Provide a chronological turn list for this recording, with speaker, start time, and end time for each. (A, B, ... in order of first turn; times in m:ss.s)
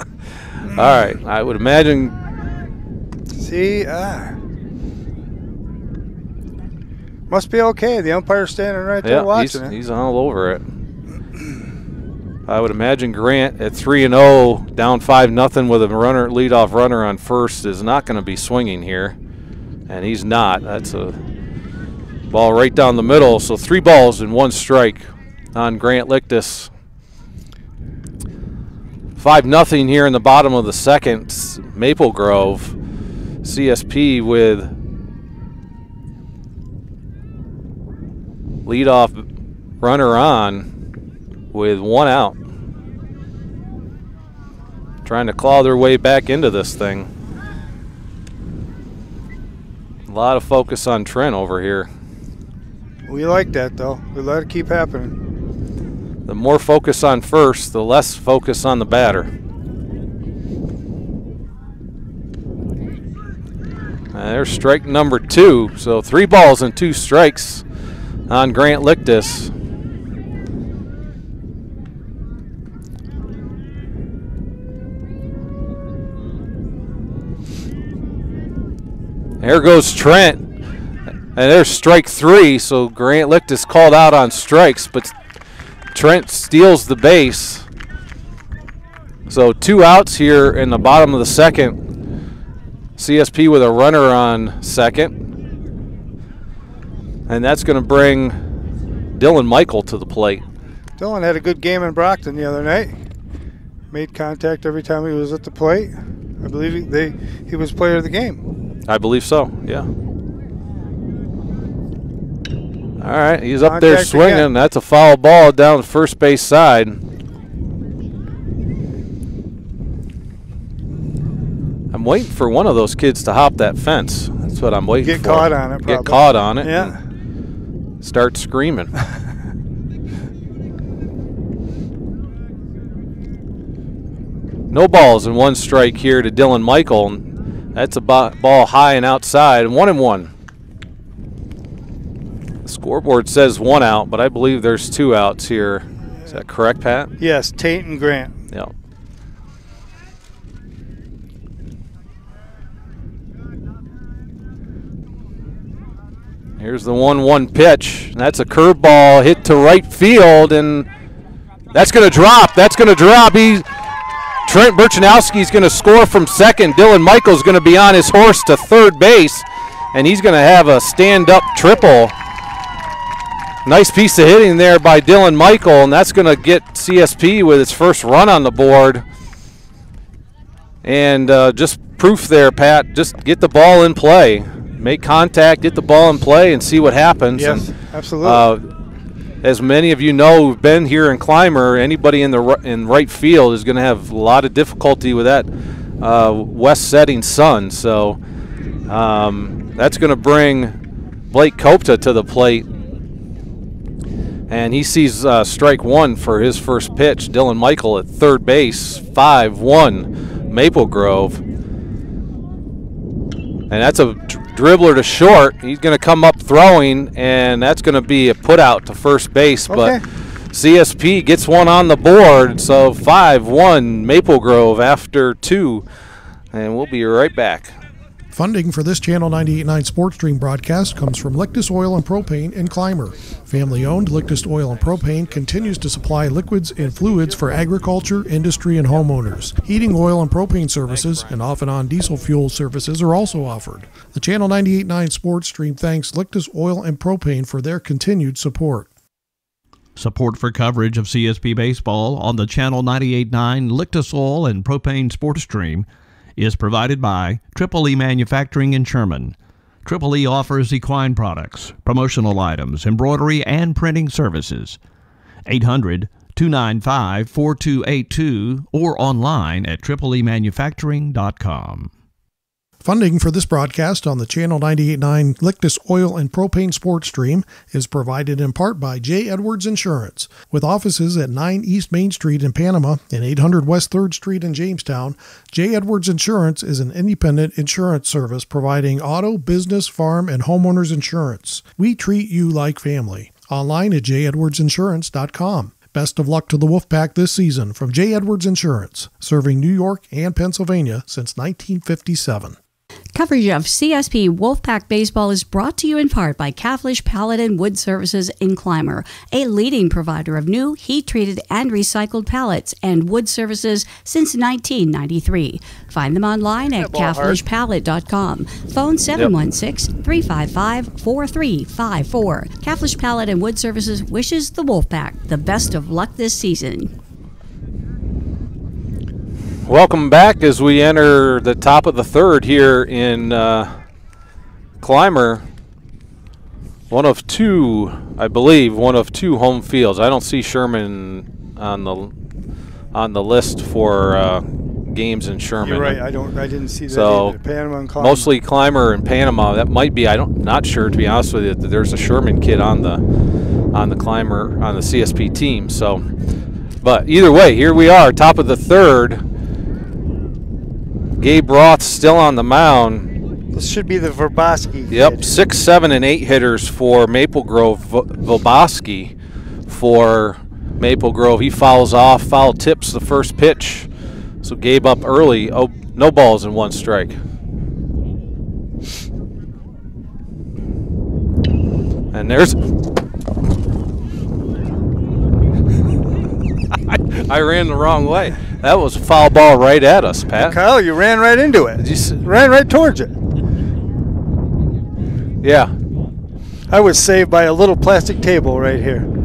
0:00.6-0:02.2 A
0:03.4-0:04.4 B
0:07.3-0:09.7 B
0:09.0-0:10.6 A
0:12.5-0:19.2 A
0:19.9-0:21.2 A
0:22.3-0:26.7 A
0:29.2-0:32.8 A
0:33.4-0:34.7 A
0:38.7-0:39.2 A
0:39.8-0:40.7 A
0:41.5-0:42.4 A
0:45.0-0:47.1 A
0:50.1-0:51.9 A
0:53.1-0:55.2 B
0:56.3-0:59.3 A
1:04.1-1:07.6 A
1:08.3-1:09.5 A
1:19.4-1:20.4 A
1:21.4-1:25.1 A
1:25.9-1:27.7 A
1:29.3-1:31.8 A
1:33.0-1:35.1 A
1:37.3-1:38.4 A
1:39.2-1:40.4 A
1:41.0-1:43.0 B
1:43.9-1:48.4 B
1:48.9-1:49.9 A
1:53.0-1:57.0 A
1:53.6-1:54.5 B
2:01.9-2:06.9 A
2:05.0-2:07.0 B
2:08.0-2:08.9 A
2:14.7-2:20.3 A
2:22.6-2:27.1 A
2:27.2-2:28.4 B
2:36.6-2:40.9 A
2:41.7-2:43.7 A
2:44.5-2:52.2 A
2:53.6-2:59.0 A
3:00.8-3:07.7 A
3:07.4-3:08.5 B
3:08.2-3:08.6 A
3:09.4-3:15.5 A
3:16.0-3:18.2 A
3:18.9-3:20.8 A
3:21.3-3:22.7 A
3:24.5-3:31.4 A
3:33.7-3:40.0 A
3:39.7-3:40.0 B
3:40.5-3:45.8 A
3:46.5-3:47.8 A
3:48.3-4:08.9 C
4:10.0-4:15.9 D
4:16.4-4:24.8 D
4:25.5-4:31.9 D
4:32.8-5:02.6 C
5:03.1-5:26.9 E
5:16.6-5:17.4 B
5:29.7-5:33.8 A
5:34.8-5:35.4 A
5:36.9-5:42.1 A
5:42.9-5:46.0 A
5:45.6-5:48.3 B
5:46.9-5:47.4 A
5:48.0-5:53.0 A
5:53.7-5:56.1 A
5:56.8-5:59.2 A
6:01.2-6:03.1 A
6:03.5-6:05.3 B
6:04.9-6:09.1 A
6:09.7-6:13.9 A
6:14.4-6:17.2 A
6:22.1-6:22.6 A
6:26.9-6:30.6 A
6:30.5-6:33.1 B
6:31.8-6:32.2 A
6:35.4-6:35.8 A
6:36.7-6:39.1 B